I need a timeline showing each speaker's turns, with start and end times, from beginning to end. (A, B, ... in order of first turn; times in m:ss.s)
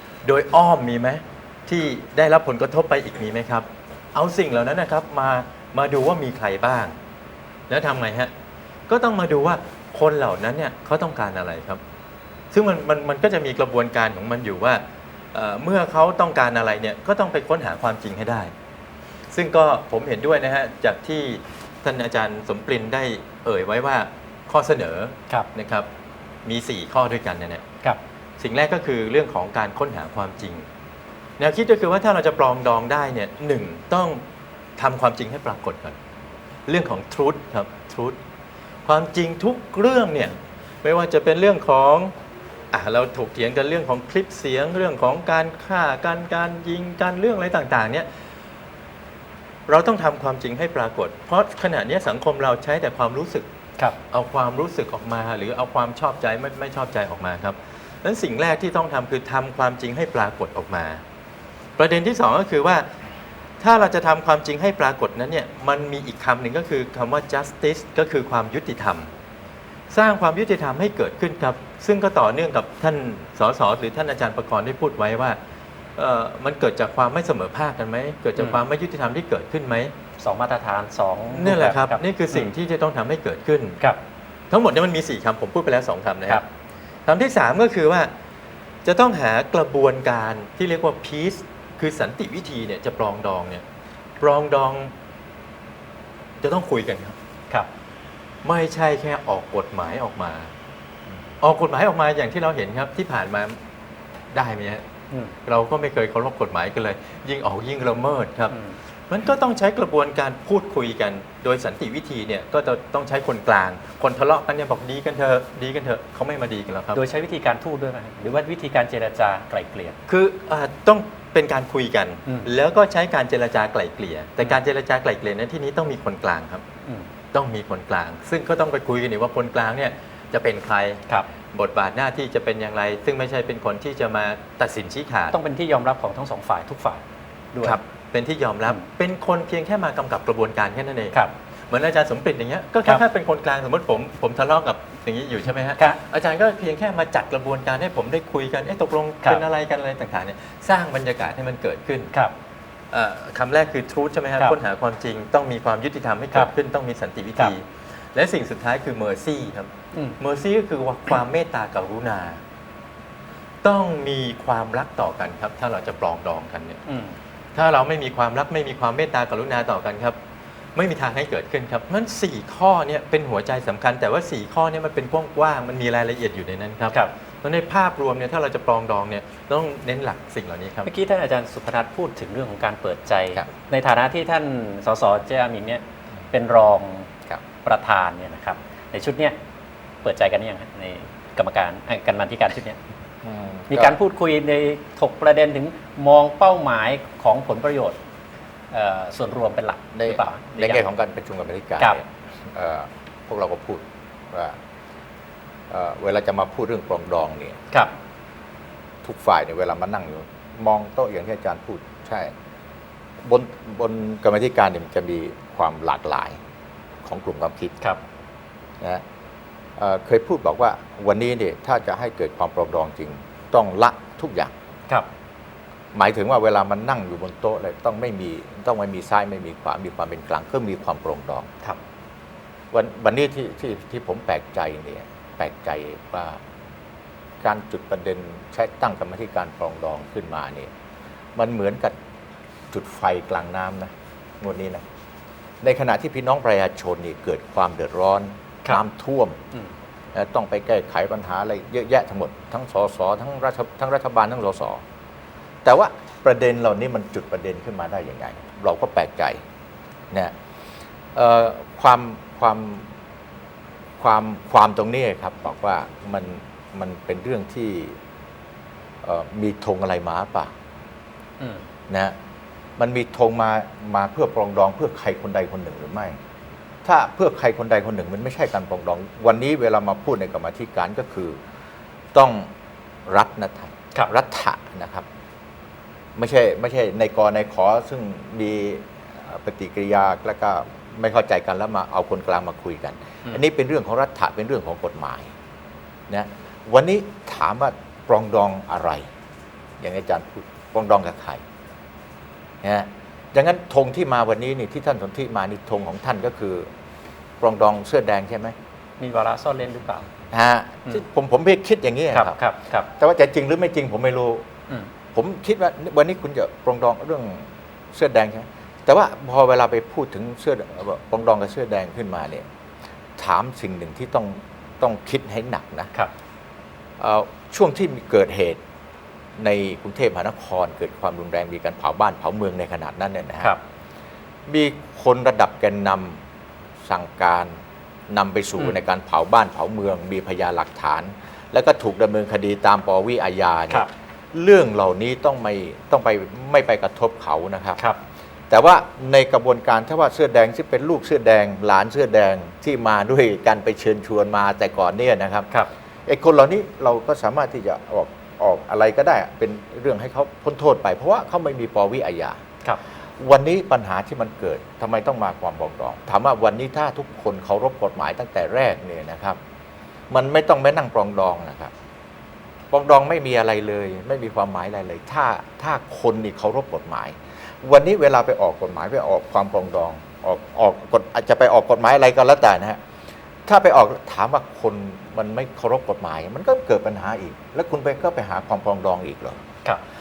0:00.2-0:07.0 A
0:07.7-0:08.3 A
0:08.9-0:11.8 A
0:12.5-0:18.5 A
0:19.3-0:25.9 A
0:26.4-0:27.6 A
0:28.4-0:30.7 A
0:31.4-0:34.2 A
0:34.8-0:36.0 A
0:36.7-0:38.2 A
0:38.8-0:42.1 A
0:42.7-0:48.1 A
0:49.7-0:53.5 A
0:54.1-1:01.0 A
1:01.8-1:02.9 A
1:03.6-1:09.1 A
1:09.9-1:15.4 A
1:16.0-1:19.9 A
1:18.4-1:18.6 B
1:20.2-1:22.5 B
1:21.3-1:23.8 A
1:24.5-1:26.4 A
1:27.1-1:28.1 A
1:28.8-1:33.6 A
1:34.2-1:34.9 A
1:36.4-1:37.2 A
1:38.4-1:40.5 A
1:41.4-1:43.6 A
1:44.3-1:44.8 A
1:45.4-1:48.6 A
1:48.5-1:48.8 B
1:49.1-1:57.0 A
1:56.9-2:00.0 B
2:00.1-2:06.6 A
2:06.8-2:07.1 B
2:07.3-2:15.4 A
2:15.3-2:17.0 B
2:17.5-2:17.8 B
2:17.6-2:21.2 A
2:21.7-2:32.1 A
2:32.9-2:42.4 A
2:43.6-2:46.8 A
2:46.9-2:47.2 B
2:47.5-2:50.2 A
2:50.8-3:00.9 A
3:00.8-3:07.1 B
3:07.6-3:09.4 B
3:10.0-3:12.8 B
3:13.2-3:14.0 C
3:13.7-3:18.0 B
3:18.7-3:20.8 B
3:20.0-3:24.6 C
3:25.7-3:27.6 C
3:29.0-3:32.3 C
3:33.2-3:36.4 C
3:37.0-3:37.8 C
3:39.8-3:44.5 C
3:45.9-3:51.5 C
3:52.7-3:56.4 C
3:57.4-4:00.7 C
4:01.4-4:02.0 C
4:02.7-4:04.8 C
4:05.6-4:09.4 C
4:10.1-4:14.8 C
4:15.6-4:19.4 C
4:21.1-4:22.9 C
4:24.0-4:28.0 C
4:29.0-4:30.5 C
4:31.4-4:31.6 B
4:31.9-4:32.2 C
4:32.8-4:36.2 C
4:36.8-4:41.4 C
4:42.1-4:42.5 C
4:43.1-4:45.1 C
4:46.2-4:55.3 C
4:56.1-4:59.1 C
4:59.8-5:01.4 C
5:02.6-5:06.7 C
5:07.4-5:08.6 C
5:09.0-5:10.1 B
5:10.3-5:12.4 C
5:12.1-5:12.9 B
5:13.0-5:14.5 C
5:15.1-5:22.5 C
5:23.2-5:25.9 C
5:27.0-5:28.6 C
5:29.4-5:33.6 C
5:34.5-5:36.2 C
5:36.8-5:47.8 C
5:48.5-5:55.5 C
5:56.1-6:02.4 C
6:03.2-6:09.4 C
6:10.1-6:11.7 C
6:12.7-6:22.8 C
6:23.5-6:29.4 C